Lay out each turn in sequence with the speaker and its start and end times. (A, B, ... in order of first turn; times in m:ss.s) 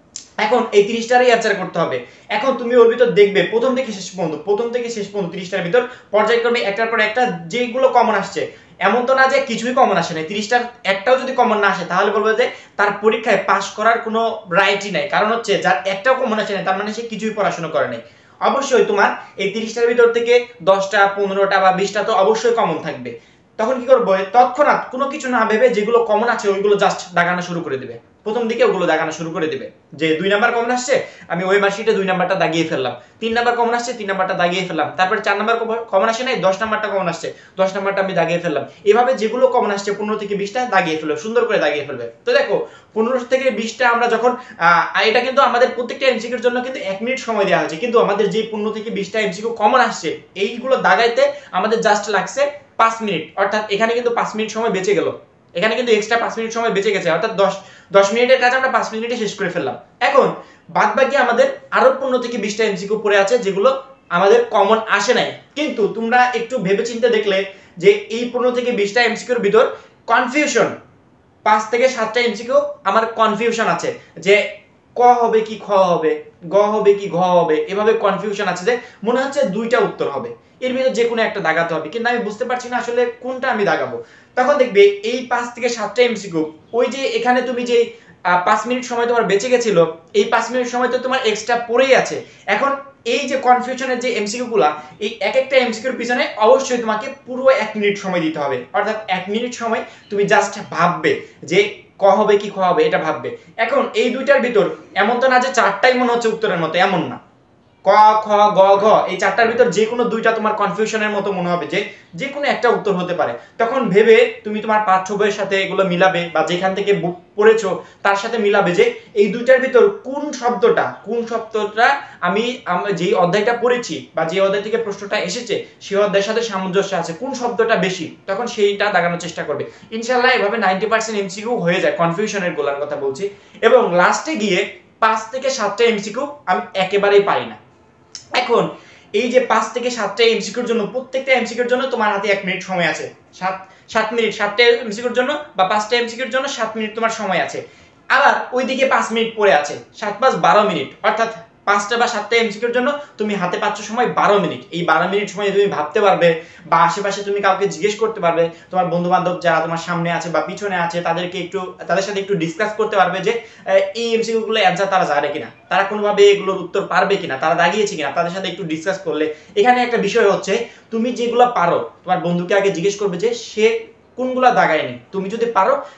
0:00.4-1:10.7 A
1:11.4-1:14.4 A
1:15.0-1:47.2 A
1:47.9-2:17.6 A
2:18.3-2:27.6 A
2:28.1-2:55.8 A